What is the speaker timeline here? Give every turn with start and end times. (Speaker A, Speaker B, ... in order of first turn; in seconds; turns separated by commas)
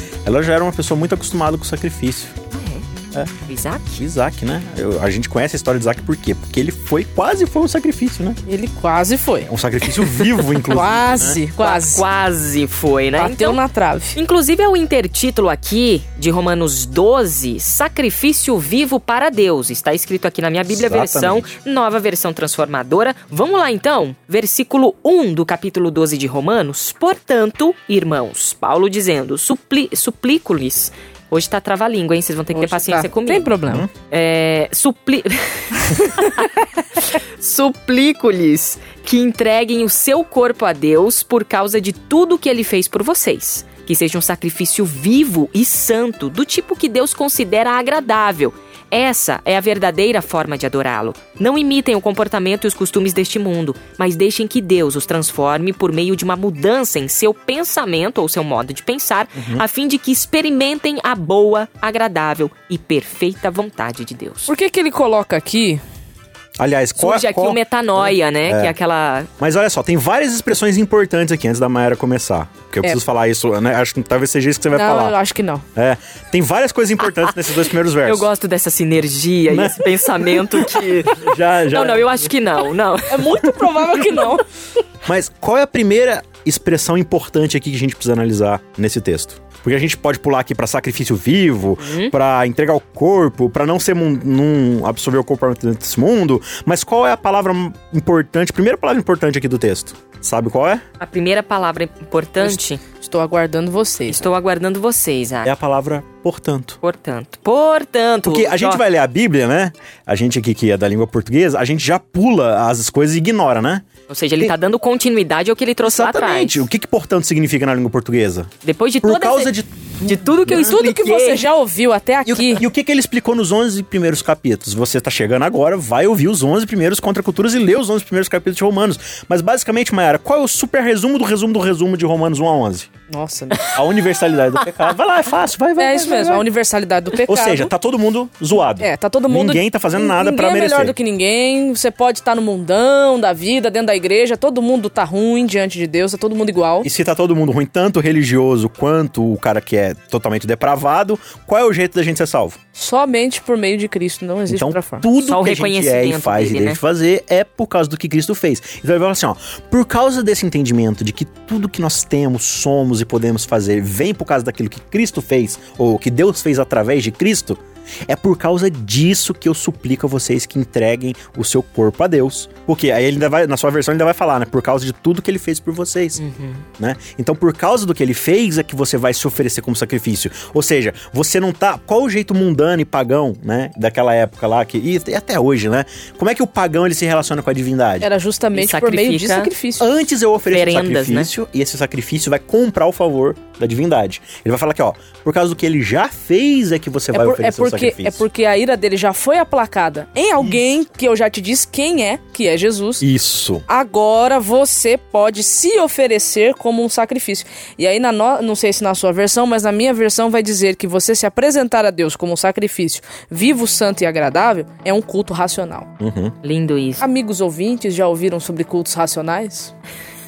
Speaker A: 0.2-2.4, Speaker B: 2.5-2.9, Speaker B: 3.5-3.9, Speaker A: 3.9-8.4, Speaker C: 8.5-9.5, Speaker A: 9.5-11.4, Speaker C: 10.6-12.1, Speaker B: 11.6-13.6, Speaker C: 13.2-14.2, Speaker B: 14.1-33.5, Speaker A: 20.7-21.6, Speaker C: 32.5-33.9, Speaker B: 34.1-64.5, Speaker A: 59.4-59.6, Speaker C: 64.5-65.8, Speaker A: 66.6-68.7, Speaker B: 67.0-69.3, Speaker A: 69.4-75.2, Speaker C: 74.7-75.7, Speaker A: 75.8-78.3, Speaker B: 78.0-83.3, Speaker A: 79.5-82.1, Speaker C: 83.1-84.5, Speaker A: 85.0-100.8, Speaker B: 91.8-92.1, Speaker B: 101.0-102.8, Speaker C: 102.4-104.3, Speaker B: 104.1-105.5, Speaker A: 105.4-106.8, Speaker B: 106.8-108.8, Speaker A: 108.2-113.9, Speaker B: 114.1-116.6, Speaker A: 115.8-118.5, Speaker B: 118.6-121.5, Speaker A: 119.0-120.8, Speaker C: 120.5-122.6, Speaker A: 122.3-132.9, Speaker C: 133.1-133.7, Speaker A: 133.7-136.5, Speaker C: 135.8-137.7, Speaker A: 137.2-140.9, Speaker C: 138.8-146.9, Speaker A: 146.8-152.6, Speaker C: 152.8-155.1, Speaker A: 154.5-176.2, Speaker B: 155.2-156.8, Speaker B: 176.2-176.6, Speaker A: 176.8-188.1, Speaker C: 188.0-189.9, Speaker B: 188.6-189.5, Speaker A: 189.8-198.2, Speaker B: 190.5-191.3, Speaker C: 197.1-203.0, Speaker A: 203.0-203.7, Speaker C: 203.7-215.9, Speaker A: 216.0-216.3, Speaker B: 216.4-217.1, Speaker C: 217.0-219.7